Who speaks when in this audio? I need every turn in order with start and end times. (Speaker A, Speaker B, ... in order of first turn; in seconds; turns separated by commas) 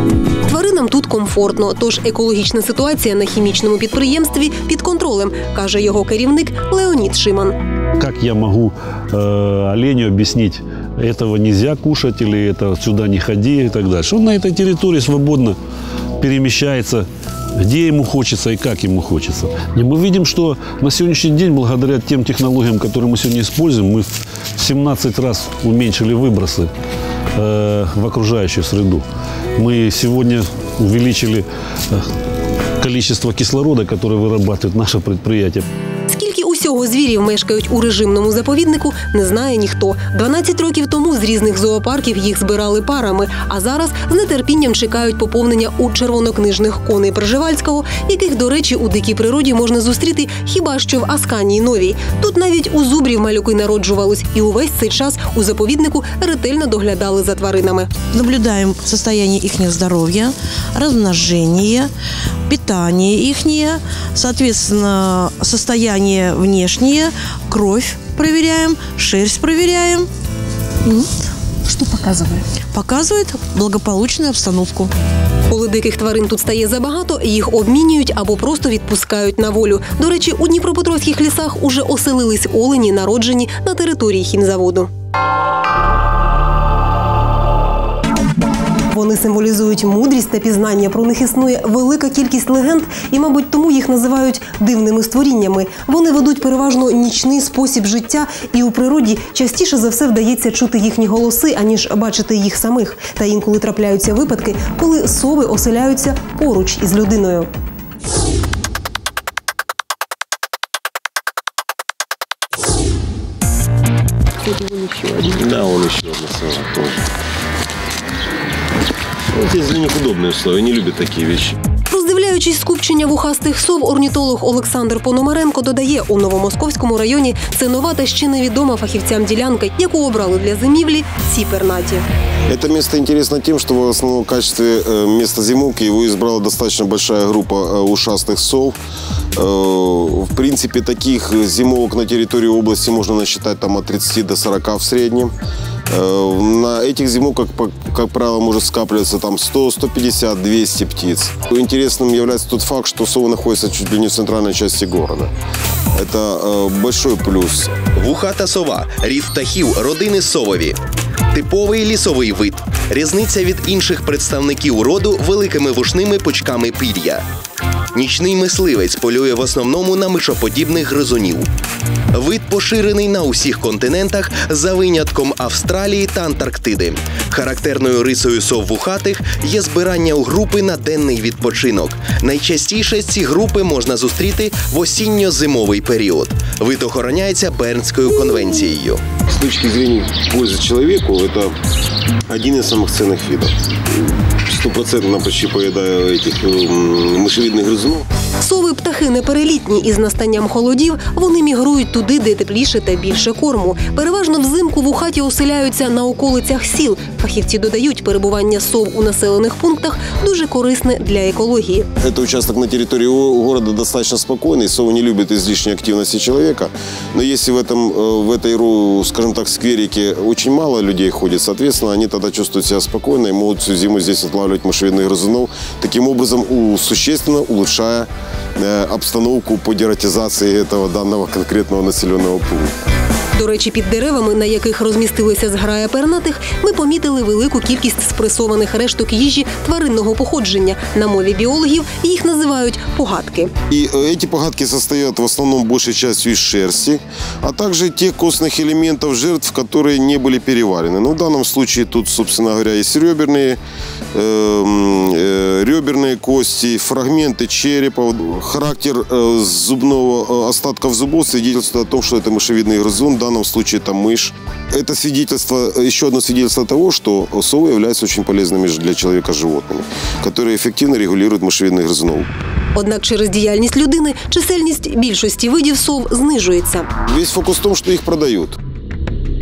Speaker A: 0.5-7.6, Speaker B: 8.0-15.6, Speaker B: 16.2-17.1, Speaker B: 17.6-26.7, Speaker B: 27.4-29.1, Speaker B: 29.6-32.0, Speaker B: 32.8-35.6, Speaker A: 36.1-57.9, Speaker C: 58.1-61.9, Speaker C: 62.5-70.1, Speaker C: 72.7-74.9, Speaker A: 75.5-84.9, Speaker A: 88.9-107.5, Speaker D: 114.6-117.0, Speaker D: 119.3-121.5, Speaker A: 121.9-132.1, Speaker D: 132.5-138.8, Speaker D: 139.4-145.3, Speaker D: 145.9-155.3, Speaker D: 156.0-157.7, Speaker E: 157.8-160.8, Speaker E: 161.3-167.2, Speaker E: 167.9-171.5, Speaker E: 172.1-189.1, Speaker D: 189.3-191.5, Speaker D: 192.3-198.1, Speaker A: 198.4-211.9, Speaker D: 212.0-232.7, Speaker A: 233.4-243.5, Speaker D: 243.7-253.6, Speaker D: 254.1-272.3, Speaker A: 272.8-276.9, Speaker D: 277.1-278.6